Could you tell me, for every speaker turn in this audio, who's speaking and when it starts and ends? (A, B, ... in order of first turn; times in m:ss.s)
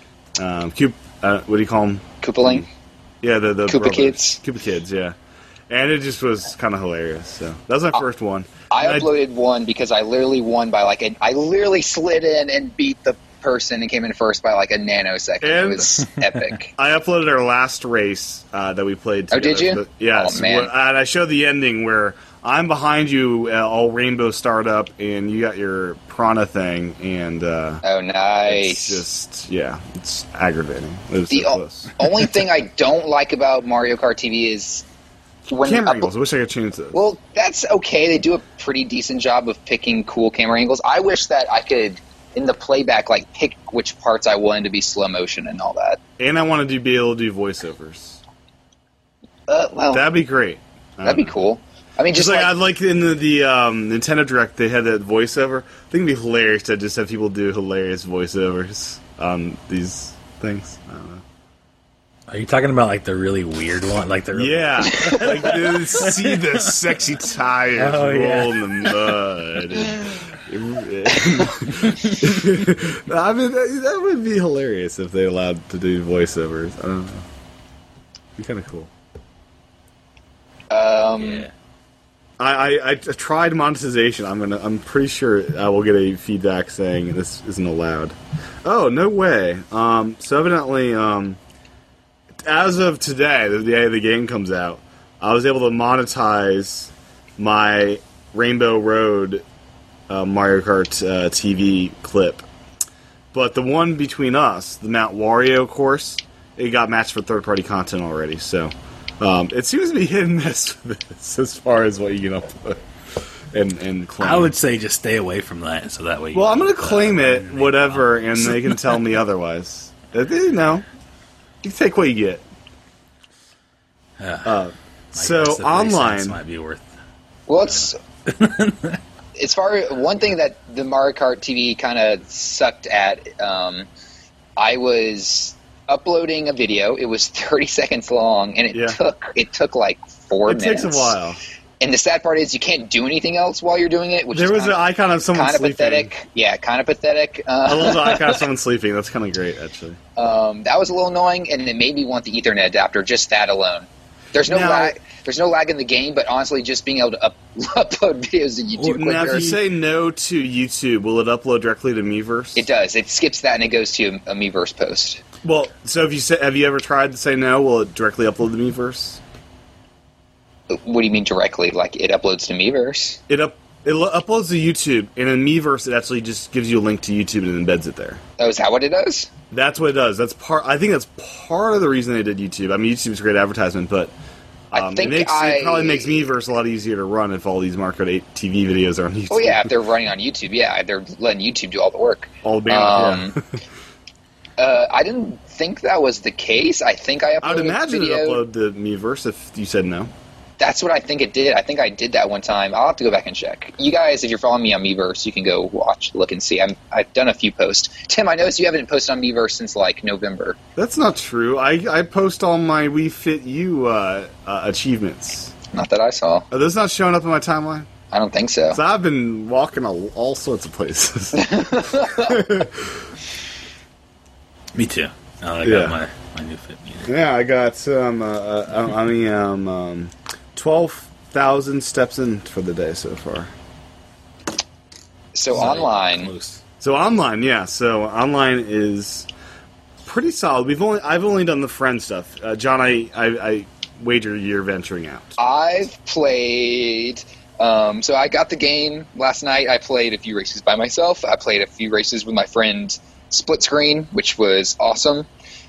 0:00.4-0:02.7 A
0:02.2-0:02.7 B
0:03.2-0:05.1 A
0:03.7-0:04.4 B
0:05.7-0:09.1 A
0:08.7-0:16.7 B
0:15.4-0:16.0 A
0:16.8-0:27.8 A
0:19.3-0:20.7 B
0:27.8-0:29.0 B
0:28.5-0:32.0 A
0:31.3-0:34.8 B
0:35.5-0:36.1 B
0:35.5-0:37.0 A
0:36.9-0:46.0 B
0:46.2-0:48.2 A
0:49.5-0:50.1 B
0:49.9-0:51.3 A
0:51.0-0:52.5 B
0:52.1-1:01.2 A
1:02.3-1:06.4 C
1:04.3-1:17.2 A
1:07.8-1:09.0 C
1:18.4-1:18.9 A
1:20.7-1:21.4 B
1:21.2-1:21.5 C
1:22.4-1:31.4 A
1:32.4-1:39.4 A
1:40.1-1:42.4 A
1:43.3-1:52.8 A
1:53.5-1:54.5 A
1:54.2-1:59.0 C
1:56.3-2:00.8 A
2:01.6-2:02.4 A
2:04.2-2:04.6 C
2:04.4-2:06.4 A
2:05.1-2:06.9 C
2:07.5-2:08.0 B
2:07.7-2:09.0 C
2:09.4-2:13.9 B
2:14.6-2:21.1 B
2:18.7-2:19.0 A
2:20.4-2:21.4 A
2:21.8-2:28.4 B
2:24.3-2:26.1 A
2:27.6-2:30.0 A
2:30.2-2:39.5 B
2:34.4-2:35.0 A
2:38.8-2:39.6 C
2:39.0-2:42.6 A
2:42.6-2:45.2 B
2:45.4-2:49.2 A
2:50.7-2:53.2 B
2:53.3-2:58.2 A
2:58.4-2:59.3 B
2:59.5-3:04.1 A
3:04.7-3:09.7 A
3:04.7-3:06.3 B
3:09.3-3:13.4 B
3:12.4-3:13.4 A
3:14.6-3:18.4 B
3:17.4-3:20.1 A
3:20.6-3:30.6 B
3:30.8-3:35.5 A
3:35.7-3:36.4 B
3:36.5-3:37.9 A
3:38.1-3:38.8 B
3:38.7-3:43.0 A
3:41.3-3:42.4 B
3:44.7-3:47.1 C
3:45.6-3:46.0 A
3:47.0-3:53.5 A
3:55.3-3:56.3 B
3:55.5-3:56.6 C
3:56.8-3:59.3 A
4:00.0-4:05.4 A
4:05.4-4:15.3 B